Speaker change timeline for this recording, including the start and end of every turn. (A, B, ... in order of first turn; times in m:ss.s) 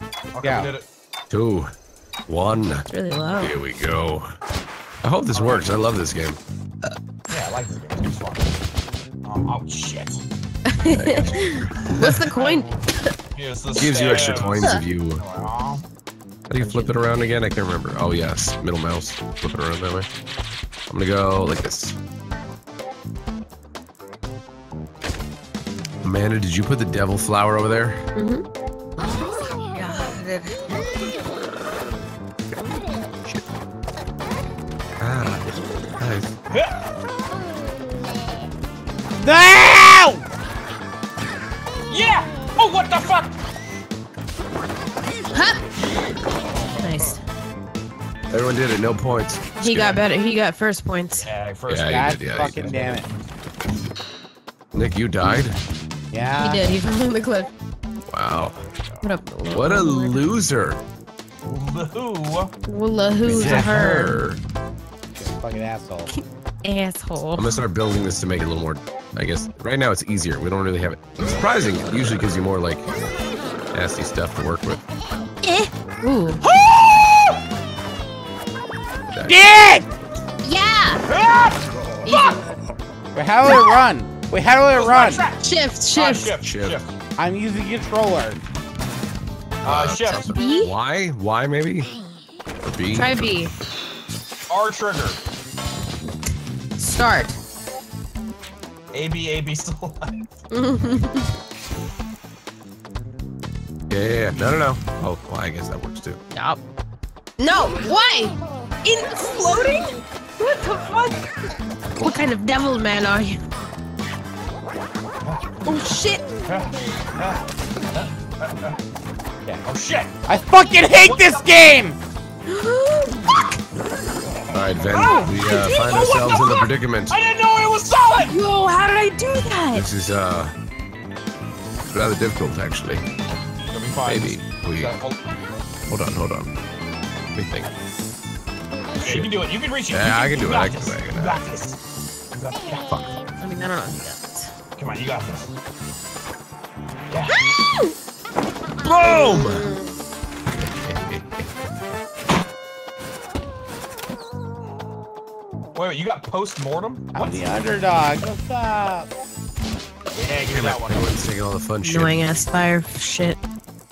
0:00.3-0:00.9 A
0:00.4-0:00.7 B
0:01.3-0:01.7 C
0:02.3-0:02.9 C
0:02.9-0:03.6 D
0:03.4-0:04.3 C
0:05.0-0:06.4 C
0:05.3-0:05.8 A
0:07.3-0:08.6 A
0:09.2-0:10.2 A
0:10.7-0:13.1 D
0:10.8-0:12.1 C
0:12.1-0:15.8 A
0:13.8-0:15.2 C
0:16.5-0:20.1 C
0:20.9-0:22.0 C
0:26.0-0:28.0 C
0:28.2-0:28.4 D
0:29.0-0:30.7 D
0:35.0-0:35.5 C
0:36.0-0:36.3 C
0:36.5-0:36.8 A
0:39.2-0:40.2 B
0:41.9-0:43.4 A
0:45.3-0:45.6 D
0:46.7-0:47.2 D
0:48.3-0:50.0 C
0:49.6-0:51.3 D
0:51.2-0:53.1 A
0:51.7-0:52.8 C
0:51.9-0:53.1 B
0:54.7-0:55.6 C
0:56.1-0:56.8 B
0:56.4-0:57.5 D
0:58.1-0:58.6 C
0:59.0-1:00.2 D
0:59.5-1:00.8 C
1:01.5-1:02.5 A
1:02.7-1:04.2 D
1:03.2-1:04.4 C
1:05.2-1:06.1 B
1:06.1-1:07.5 D
1:07.4-1:12.9 C
1:13.7-1:14.8 C
1:15.4-1:16.4 D
1:16.4-1:17.4 A
1:19.1-1:19.4 C
1:19.3-1:19.9 B
1:20.4-1:21.0 D
1:21.1-1:22.5 A
1:22.0-1:22.6 D
1:23.1-1:25.3 B
1:24.7-1:26.9 A
1:25.4-1:26.3 D
1:26.4-1:26.8 C
1:27.2-1:28.4 B
1:29.6-1:30.3 A
1:29.6-1:31.9 C
1:30.3-1:30.7 D
1:32.6-1:33.5 C
1:33.0-1:33.5 D
1:34.5-1:35.2 A
1:36.8-1:37.4 D
1:38.9-1:40.2 A
1:40.5-1:41.3 D
1:43.9-1:46.2 C
1:46.3-1:46.6 D
1:47.4-1:51.3 D
1:52.0-1:53.5 D
1:55.2-1:55.9 A
1:55.6-1:56.4 D
1:56.5-1:58.8 A
1:59.6-2:00.1 A
2:00.3-2:02.0 B
2:01.0-2:01.5 A
2:02.5-2:03.5 D
2:04.5-2:06.2 A
2:04.5-2:07.2 C
2:05.0-2:06.6 D
2:07.1-2:08.4 A
2:08.2-2:09.8 D
2:09.7-2:10.5 C
2:11.9-2:13.0 C
2:13.7-2:15.2 A
2:14.1-2:14.9 C
2:15.9-2:16.5 C
2:17.4-2:17.7 C
2:19.0-2:21.8 A
2:19.0-2:19.3 C
2:19.9-2:21.4 C
2:22.3-2:23.0 A
2:22.9-2:23.2 C
2:23.4-2:24.5 D
2:24.8-2:25.5 A
2:27.1-2:27.4 A
2:27.4-2:27.9 D
2:28.7-2:29.7 C
2:29.0-2:29.9 D
2:30.5-2:31.4 C
2:35.7-2:37.5 A
2:37.1-2:39.1 B
2:40.2-2:41.2 A
2:40.4-2:42.2 C
2:41.8-2:43.4 D